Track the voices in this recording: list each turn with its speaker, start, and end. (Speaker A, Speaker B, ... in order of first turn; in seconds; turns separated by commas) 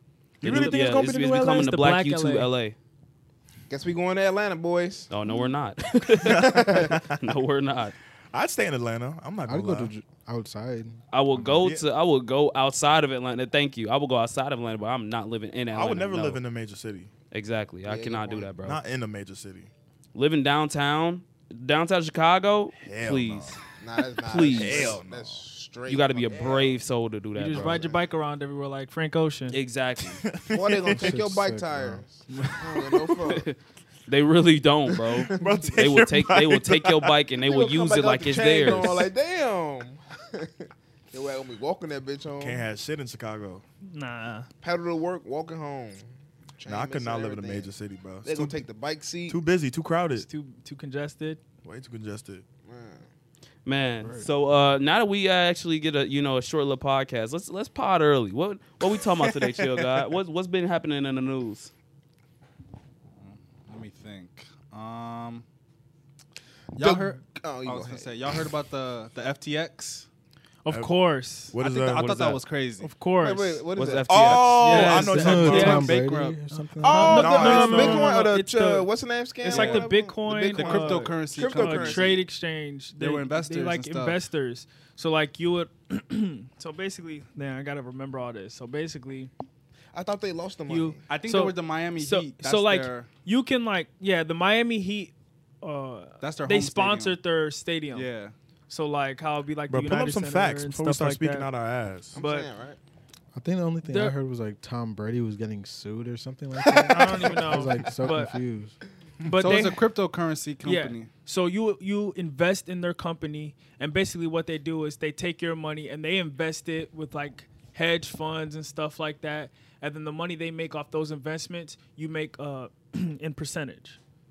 Speaker A: 0.4-1.7, Speaker B: 0.4-2.8, Speaker C: 0.4-2.5, Speaker D: 3.7-5.1, Speaker B: 5.1-7.9, Speaker A: 6.2-7.3, Speaker D: 6.3-6.9, Speaker A: 8.3-9.9, Speaker E: 9.4-11.0, Speaker B: 11.1-16.4, Speaker A: 11.4-11.8, Speaker A: 15.7-17.1, Speaker B: 17.3-18.8, Speaker D: 17.8-18.6, Speaker A: 18.6-19.7, Speaker B: 20.1-23.6, Speaker A: 22.8-23.6, Speaker D: 23.8-26.8, Speaker B: 24.2-25.0, Speaker A: 24.6-25.4, Speaker B: 25.9-27.8, Speaker C: 27.3-29.6, Speaker B: 29.5-30.2, Speaker A: 30.2-31.1, Speaker D: 30.5-33.5, Speaker E: 30.9-32.0, Speaker C: 32.3-33.0, Speaker B: 33.3-39.0, Speaker A: 35.3-37.1, Speaker D: 35.3-35.8, Speaker D: 37.5-42.7, Speaker A: 42.4-43.6, Speaker C: 43.8-44.5, Speaker D: 44.6-47.7, Speaker A: 46.6-48.6, Speaker D: 48.2-49.4, Speaker A: 49.3-50.2, Speaker C: 50.2-51.4, Speaker A: 51.6-52.4, Speaker D: 52.6-53.1, Speaker B: 53.6-61.7, Speaker F: 63.1-65.4, Speaker F: 66.7-70.1, Speaker D: 66.8-68.1, Speaker C: 70.6-71.5, Speaker A: 71.5-72.3, Speaker F: 71.6-72.9, Speaker B: 72.0-72.3, Speaker C: 72.8-73.6, Speaker D: 73.2-74.9, Speaker B: 73.8-75.0, Speaker A: 74.0-75.9, Speaker C: 74.6-78.9, Speaker E: 75.0-77.2, Speaker F: 75.9-76.3, Speaker D: 76.8-82.2, Speaker A: 77.1-78.1, Speaker C: 79.4-89.3, Speaker F: 79.5-79.9, Speaker F: 80.5-82.2, Speaker F: 83.0-84.2, Speaker D: 89.9-91.0, Speaker C: 90.7-98.1, Speaker F: 91.1-93.1, Speaker F: 96.2-97.2, Speaker F: 97.9-98.3, Speaker C: 98.7-101.5, Speaker A: 99.7-102.2, Speaker D: 102.1-102.8, Speaker C: 102.2-102.5, Speaker E: 103.3-108.8, Speaker C: 103.8-104.1, Speaker A: 106.9-107.4, Speaker C: 106.9-108.4, Speaker C: 109.2-109.8, Speaker F: 109.4-111.1, Speaker C: 110.6-124.0